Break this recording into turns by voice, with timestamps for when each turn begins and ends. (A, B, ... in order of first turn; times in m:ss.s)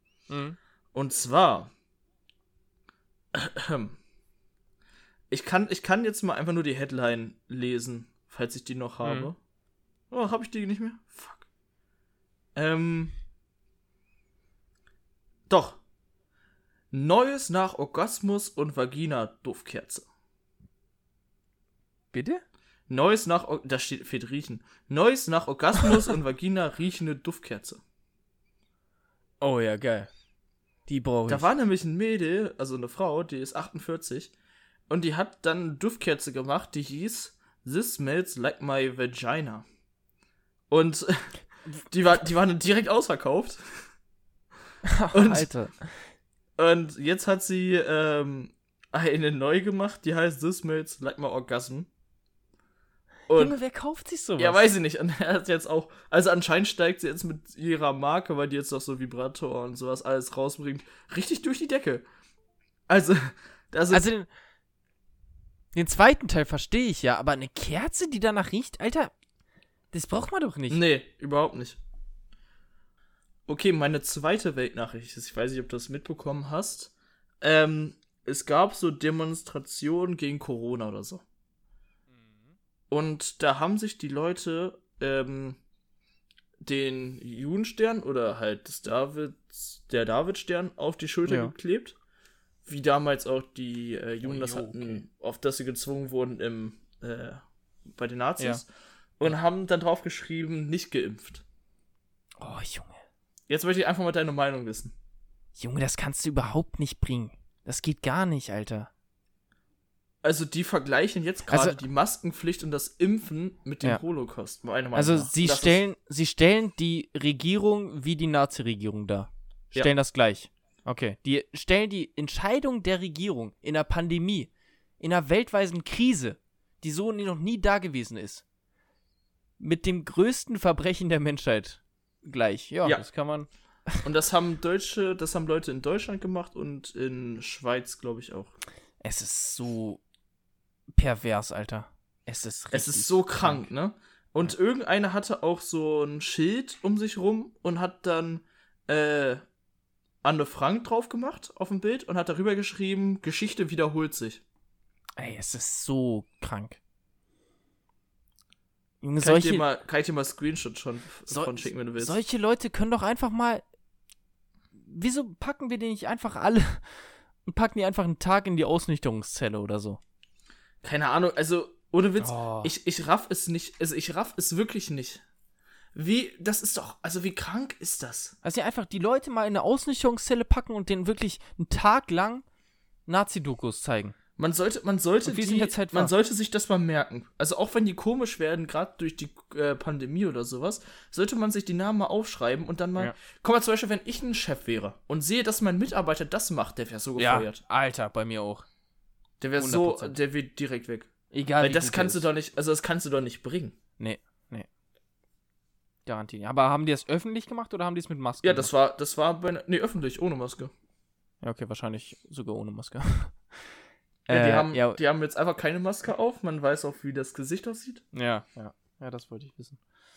0:00.3-0:00.6 A
0:00.9-0:01.7 B
0:03.3-0:04.0 B
0:05.3-0:09.4 B
0:09.0-0:09.3 A
0:10.1-0:11.5 B
0:12.6-0:13.1 B
0:15.5-0:15.8 B
0:16.9-0:20.1 B
0:22.1-0:22.4 A
0:22.9-0:27.8 B
0:29.4-0:30.1 A
0:30.9-0:31.5 A
0:31.3-0:34.3 B
0:34.9-0:39.7 B
0:40.7-0:41.4 B
0:41.9-0:43.8 B
0:44.8-0:46.0 A
0:45.1-0:45.5 B
0:46.6-0:51.9 B
0:53.3-0:53.6 B
0:53.3-0:54.6 A
0:54.4-1:02.1 B
1:02.9-1:04.1 B
1:03.9-1:04.3 A
1:05.8-1:09.1 A
1:09.9-1:10.8 A
1:10.7-1:11.8 B
1:13.5-1:21.2 B
1:22.1-1:22.6 A
1:22.9-1:25.6 B
1:26.6-1:32.0 B
1:31.2-1:31.5 A
1:32.6-1:38.7 B
1:34.2-1:35.0 A
1:39.2-1:41.4 B
1:42.4-1:43.0 A
1:43.5-1:45.0 B
1:45.6-1:48.9 A
1:50.2-1:55.8 B
1:51.5-1:51.8 A
1:54.9-2:08.4 A
2:09.6-2:14.0 A
2:14.0-2:18.5 B
2:19.0-2:20.0 A
2:21.0-2:23.7 A
2:22.7-2:29.4 B
2:30.2-2:34.4 B
2:35.2-2:36.8 A
2:39.0-2:39.6 A
2:39.2-2:42.2 B
2:41.3-2:43.6 A
2:44.8-2:50.0 A
2:50.8-2:55.2 B
2:52.2-2:52.7 A
2:55.9-2:58.4 B
2:58.4-3:02.4 A
3:03.1-3:04.2 A
3:04.4-3:17.6 B
3:05.2-3:06.1 A
3:17.2-3:18.7 A
3:19.4-3:23.8 B
3:19.6-3:20.2 A
3:21.3-3:22.3 A
3:24.0-3:24.7 A
3:26.1-3:28.7 A
3:28.4-3:30.7 B
3:31.4-3:33.8 A
3:34.3-3:35.0 A
3:34.3-3:38.0 B
3:38.1-3:39.8 A